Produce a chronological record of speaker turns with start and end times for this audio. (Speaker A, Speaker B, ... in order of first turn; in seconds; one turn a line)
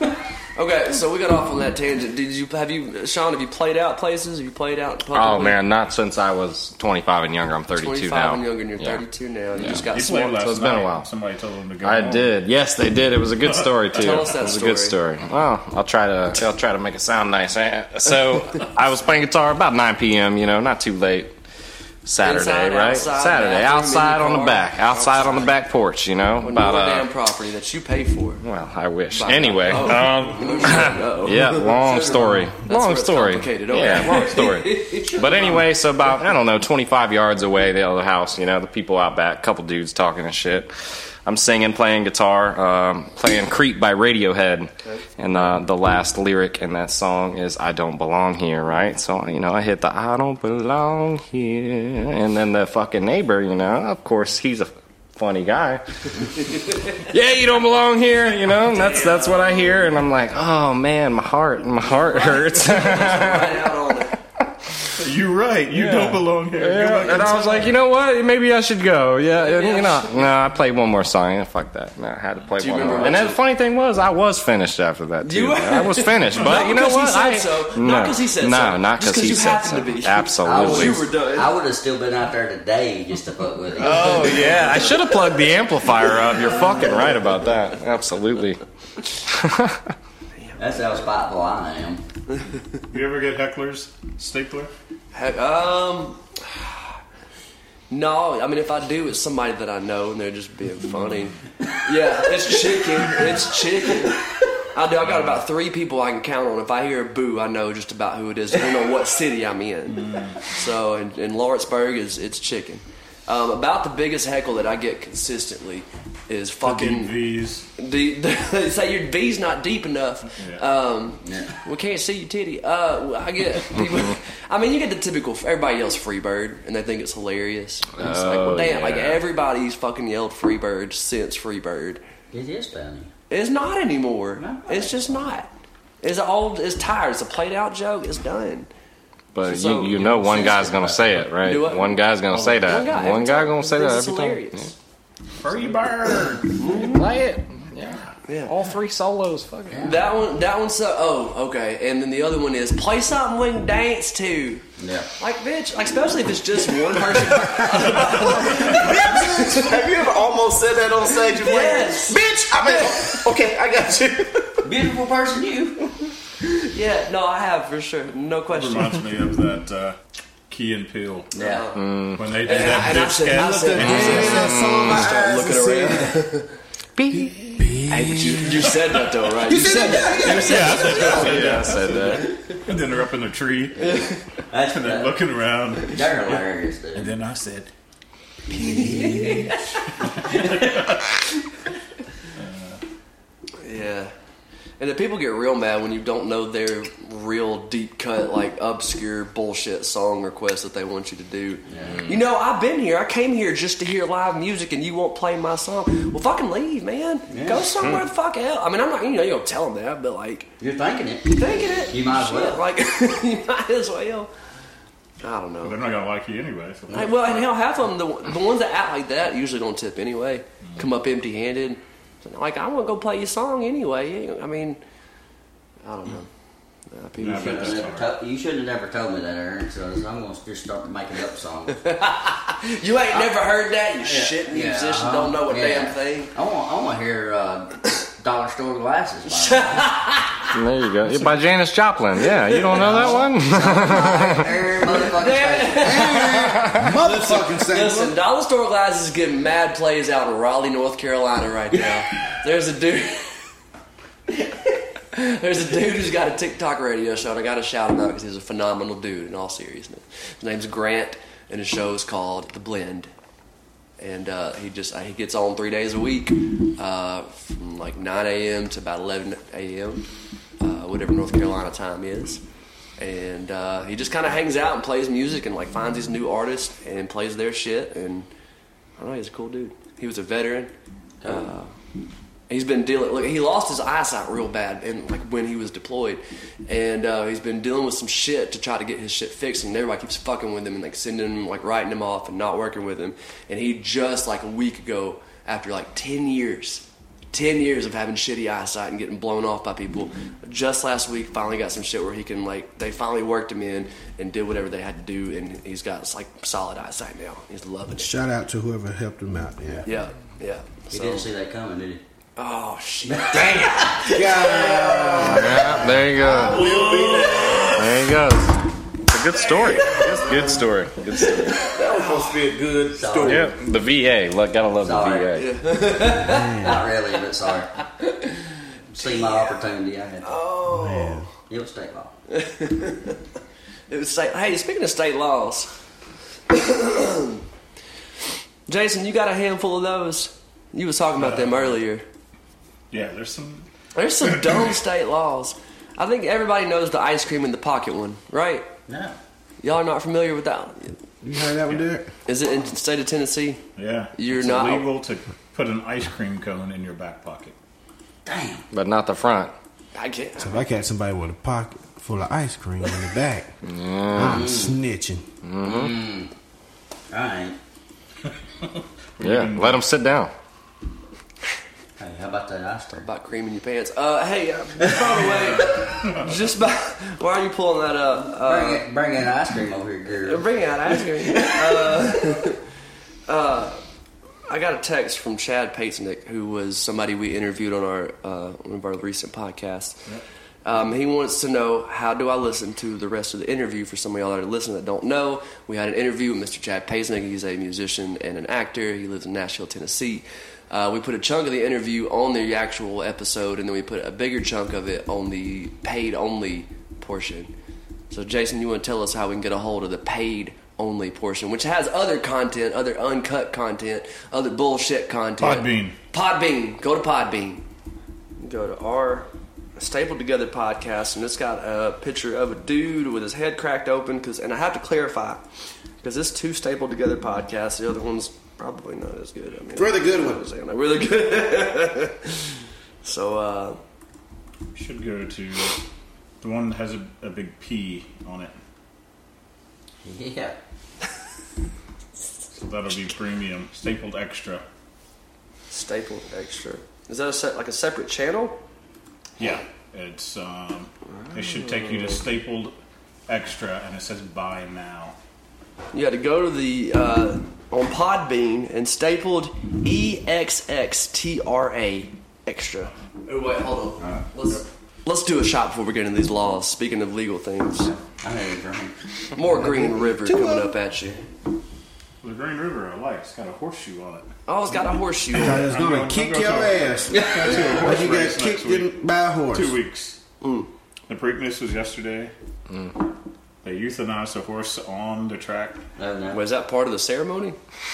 Speaker A: 0.5-5.6
Speaker B: 5.1-9.0
Speaker A: 7.8-10.4
Speaker B: 9.6-11.1
Speaker C: 9.7-12.4
Speaker B: 11.8-21.3
Speaker C: 13.4-14.3
Speaker A: 13.9-15.0
Speaker B: 22.0-27.1
Speaker A: 22.2-25.5
Speaker A: 26.4-28.4
Speaker B: 28.4-40.7
Speaker A: 29.1-31.7
Speaker C: 29.8-30.4
Speaker D: 30.3-31.0
Speaker D: 31.6-32.5
Speaker A: 32.6-35.6
Speaker B: 41.2-55.8
Speaker A: 44.8-45.1
Speaker B: 56.5-63.7
Speaker A: 58.8-59.7
Speaker A: 62.0-64.2
Speaker C: 65.0-67.7
Speaker B: 65.7-81.0
Speaker A: 67.0-67.7
Speaker A: 69.4-70.2
Speaker A: 72.6-73.4
Speaker D: 72.8-73.2
Speaker A: 75.2-81.5
Speaker D: 80.4-84.6
Speaker B: 83.8-88.6
Speaker A: 83.8-84.9
Speaker B: 89.2-89.9
Speaker A: 90.4-91.0
Speaker D: 90.6-92.0
Speaker C: 92.9-94.7
Speaker A: 95.1-96.9
Speaker A: 97.9-117.1
Speaker C: 100.8-101.4
Speaker C: 105.0-105.4
Speaker C: 109.9-110.5
Speaker C: 116.6-117.7
Speaker A: 117.8-132.0
Speaker C: 120.3-120.6
Speaker D: 121.2-121.6
Speaker B: 128.0-129.2
Speaker D: 132.3-133.1
Speaker A: 133.3-135.5
Speaker D: 134.4-135.3
Speaker A: 136.0-138.7
Speaker B: 139.3-144.7
Speaker A: 139.4-140.0
Speaker D: 139.9-141.2
Speaker A: 141.4-142.0
Speaker C: 142.3-142.9
Speaker A: 142.6-144.7
Speaker C: 145.4-146.9
Speaker A: 146.5-147.0
Speaker B: 146.6-150.0
Speaker A: 148.3-148.5
Speaker D: 149.7-150.1
Speaker A: 149.8-154.6
Speaker D: 154.8-155.1
Speaker A: 155.2-159.7
Speaker C: 157.9-159.1
Speaker E: 157.9-164.7
Speaker A: 161.3-162.9
Speaker D: 164.6-165.9
Speaker A: 166.4-168.9
Speaker C: 168.5-170.0
Speaker C: 170.5-171.3
Speaker D: 171.3-171.7
Speaker A: 171.3-171.8
Speaker B: 171.7-172.3
Speaker C: 172.1-174.4
Speaker A: 172.4-176.5
Speaker F: 173.6-176.2
Speaker B: 173.8-175.1
Speaker B: 177.0-177.6
Speaker F: 177.1-178.7
Speaker A: 177.9-181.6
Speaker F: 179.4-181.2
Speaker C: 180.3-184.0
Speaker B: 180.9-182.3
Speaker A: 183.8-184.2
Speaker D: 184.5-185.2
Speaker C: 184.6-187.7
Speaker D: 185.8-187.1
Speaker A: 188.5-189.8
Speaker D: 188.5-189.5
Speaker C: 190.1-191.1
Speaker D: 190.2-191.1
Speaker C: 192.3-192.8
Speaker A: 193.6-194.1
Speaker A: 194.8-210.5
Speaker D: 201.7-202.1
Speaker D: 207.3-207.7
Speaker D: 210.6-212.6
Speaker A: 211.3-214.3
Speaker A: 215.2-215.8
Speaker C: 215.6-217.5
Speaker A: 216.9-224.8
Speaker A: 225.8-226.3
Speaker A: 226.9-227.9
Speaker C: 227.2-228.1
Speaker D: 227.2-231.8
Speaker A: 231.8-236.3
Speaker D: 234.0-239.9
Speaker A: 239.3-240.5
Speaker B: 240.5-244.5
Speaker D: 242.6-246.1
Speaker A: 242.8-243.1
Speaker A: 244.9-253.4
Speaker F: 245.8-248.1
Speaker A: 254.4-263.1
Speaker A: 264.0-270.0
Speaker A: 270.6-272.4
Speaker A: 273.0-278.3
Speaker A: 279.0-280.7
Speaker D: 281.2-281.5
Speaker A: 281.2-281.7
Speaker A: 282.5-308.1
Speaker F: 307.9-309.9
Speaker A: 309.8-311.3
Speaker D: 310.9-312.0
Speaker A: 312.4-315.2
Speaker D: 313.1-314.1
Speaker F: 314.1-315.9
Speaker E: 314.6-315.2
Speaker B: 315.2-316.8
Speaker E: 316.1-317.8
Speaker A: 316.7-317.8
Speaker B: 317.7-321.7
Speaker A: 319.4-320.5
Speaker A: 321.2-322.4
Speaker E: 321.6-323.5
Speaker D: 322.9-323.5
Speaker B: 323.2-325.5
Speaker D: 324.8-325.3
Speaker A: 325.4-326.8
Speaker D: 326.0-327.7
Speaker F: 326.2-326.8
Speaker A: 328.0-329.6
Speaker D: 328.9-330.4
Speaker A: 330.2-331.2
Speaker F: 330.7-331.2
Speaker D: 331.5-332.1
Speaker A: 332.3-333.1
Speaker A: 333.9-335.7
Speaker A: 336.5-337.4
Speaker A: 338.7-342.0
Speaker C: 341.1-341.8
Speaker C: 342.9-343.7
Speaker A: 343.9-348.7
Speaker C: 344.2-344.8
Speaker D: 348.9-349.2
Speaker A: 349.6-350.9
Speaker F: 351.2-352.1
Speaker A: 352.2-353.6
Speaker C: 353.8-357.5
Speaker A: 354.1-354.9
Speaker D: 358.2-358.6
Speaker B: 358.7-359.5
Speaker A: 359.9-360.6
Speaker F: 360.4-363.5
Speaker B: 363.6-364.5
Speaker F: 364.1-365.2
Speaker D: 364.2-364.8
Speaker B: 365.4-366.0
Speaker D: 365.6-366.3
Speaker D: 367.1-367.6
Speaker C: 368.6-369.8
Speaker B: 369.2-370.3
Speaker D: 372.0-373.1
Speaker A: 373.0-378.8
Speaker C: 376.0-376.5
Speaker D: 378.3-382.1
Speaker A: 380.2-382.6
Speaker A: 383.3-383.8
Speaker A: 384.5-390.0
Speaker A: 390.6-407.5
Speaker A: 408.1-417.6
Speaker C: 415.4-415.9
Speaker A: 418.4-425.4
Speaker A: 426.0-432.5
Speaker F: 429.7-430.4
Speaker A: 433.0-433.8
Speaker C: 434.7-435.8
Speaker C: 436.4-438.5
Speaker D: 440.0-440.6
Speaker C: 442.5-444.6
Speaker A: 445.7-448.6
Speaker C: 449.4-452.7
Speaker A: 451.1-452.2
Speaker C: 453.3-455.1
Speaker A: 455.9-467.9
Speaker D: 467.8-468.9
Speaker A: 469.3-471.2
Speaker F: 469.5-470.7
Speaker C: 472.2-474.3
Speaker A: 474.5-475.7
Speaker C: 475.3-478.9
Speaker F: 475.3-479.8
Speaker D: 477.1-477.9
Speaker C: 479.5-480.2
Speaker A: 480.4-480.7
Speaker C: 481.1-482.3
Speaker C: 483.6-485.8
Speaker D: 486.0-486.4
Speaker A: 486.3-487.6